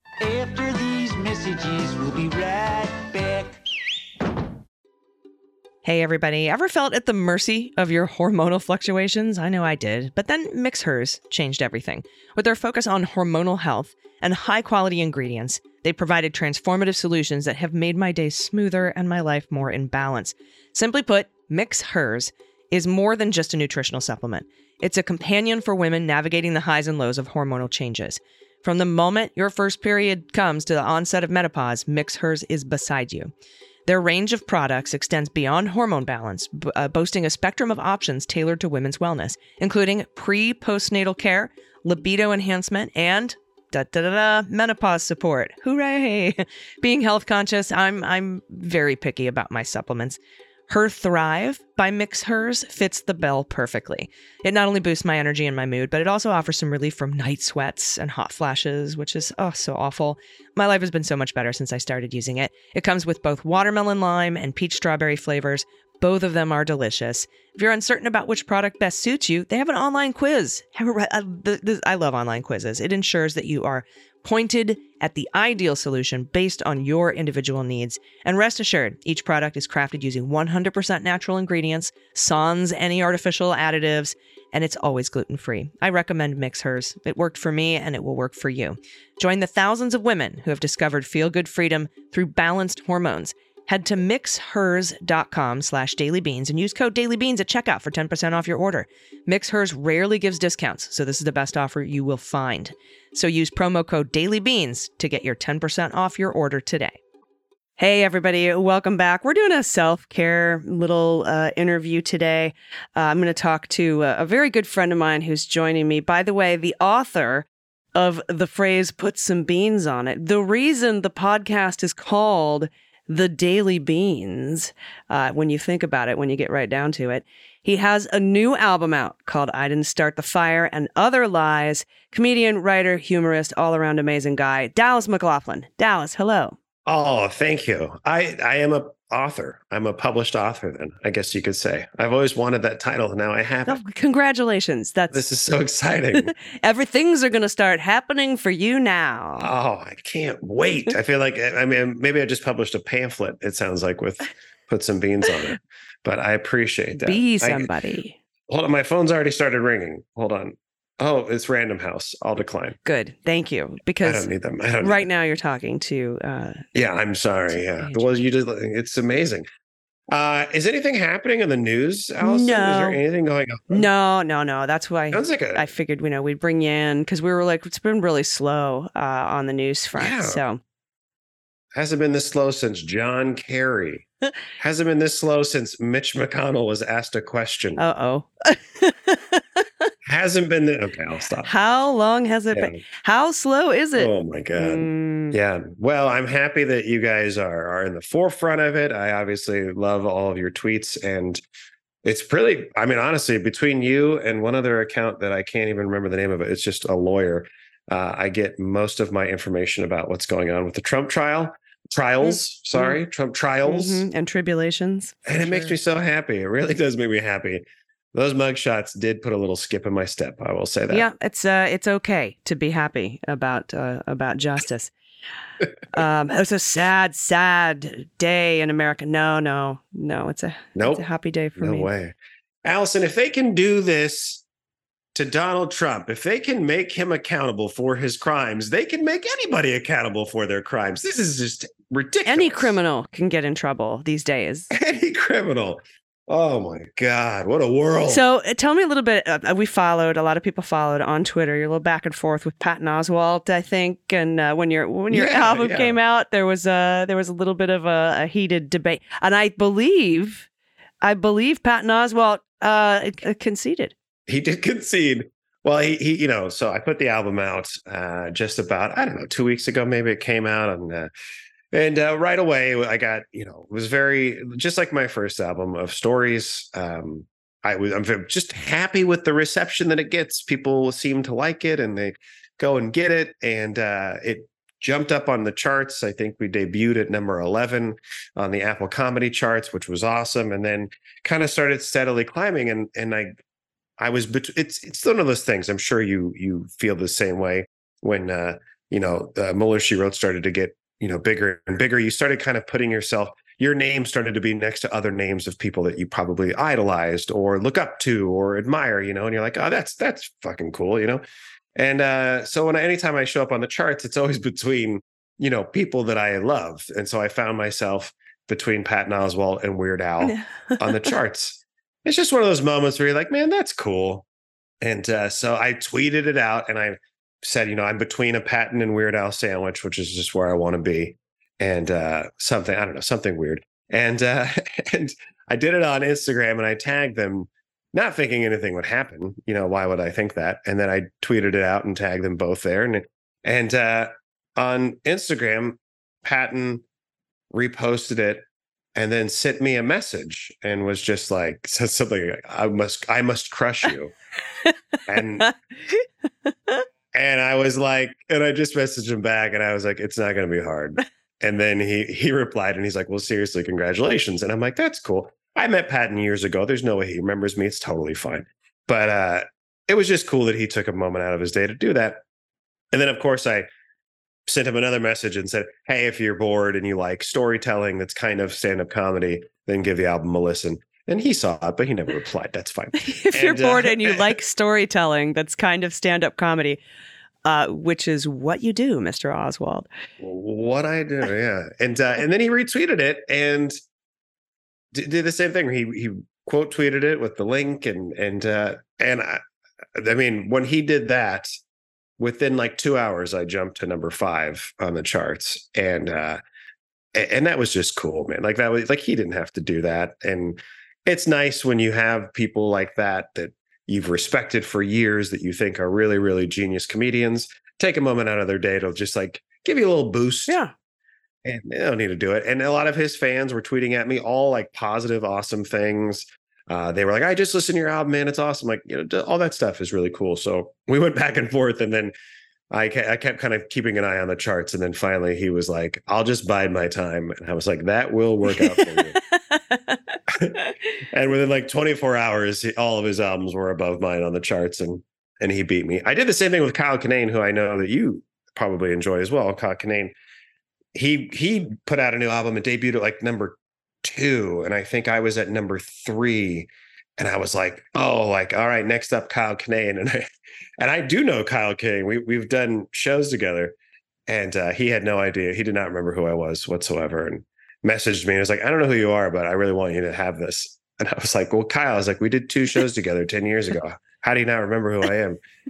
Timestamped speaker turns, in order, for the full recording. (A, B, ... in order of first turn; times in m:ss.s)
0:00.2-0:03.6 A
0:05.8-0:33.3 B
0:33.8-1:47.0 B
1:58.8-1:59.4 B
2:01.0-2:01.9 B
2:03.4-2:03.9 B
2:05.4-2:06.9 B
2:08.2-2:09.9 B
2:10.8-2:16.5 B
2:16.8-2:23.8 C
2:23.7-2:25.2 B
2:25.1-2:26.3 C
2:26.6-2:29.4 B
2:29.4-2:37.7 C
2:37.0-2:38.1 B
2:38.5-2:42.8 C
2:42.9-2:44.3 B
2:44.0-2:45.1 C
2:44.8-2:46.5 B
2:46.7-2:49.4 C
2:47.8-2:48.1 B
2:50.1-2:53.9 C
2:52.2-2:53.0 B
2:53.7-3:00.6 B
2:55.1-2:55.7 C
3:00.0-3:00.4 C
3:01.7-3:04.0 C
3:04.6-3:07.9 C
3:07.8-3:09.4 B
3:10.0-3:11.5 C
3:11.4-3:15.3 B
3:12.5-3:12.8 C
3:13.9-3:21.4 C
3:22.0-3:34.1 C
3:33.7-3:35.7 B
3:35.2-3:37.6 C
3:38.1-3:41.1 C
3:40.9-3:44.9 B
3:45.9-3:51.9 B
3:50.8-3:54.4 C
3:55.1-4:02.8 C
4:02.2-4:04.7 B
4:04.7-4:08.2 C
4:08.1-4:20.4 B
4:15.1-4:16.0 C
4:21.0-4:23.9 B
4:24.3-4:31.1 C
4:31.7-4:53.4 C
4:54.0-5:11.2 C
5:11.8-5:24.2 C
5:24.8-5:46.8 C
5:47.5-5:48.4 C
5:48.9-5:54.1 C
5:55.1-5:55.5 C
5:55.4-5:56.0 B
5:57.1-6:12.2 C
6:12.9-6:13.7 C
6:14.4-6:24.4 C
6:23.0-6:26.8 B
6:27.4-6:29.9 B
6:30.2-6:33.8 C
6:34.9-6:39.4 C
6:39.9-6:41.5 C
6:42.2-6:46.4 C
6:47.1-7:00.6 C
7:01.4-7:12.1 C
7:12.7-7:19.2 C
7:20.3-7:20.5 C
7:21.1-7:30.1 C
7:30.9-7:43.7 C
7:44.3-7:55.4 C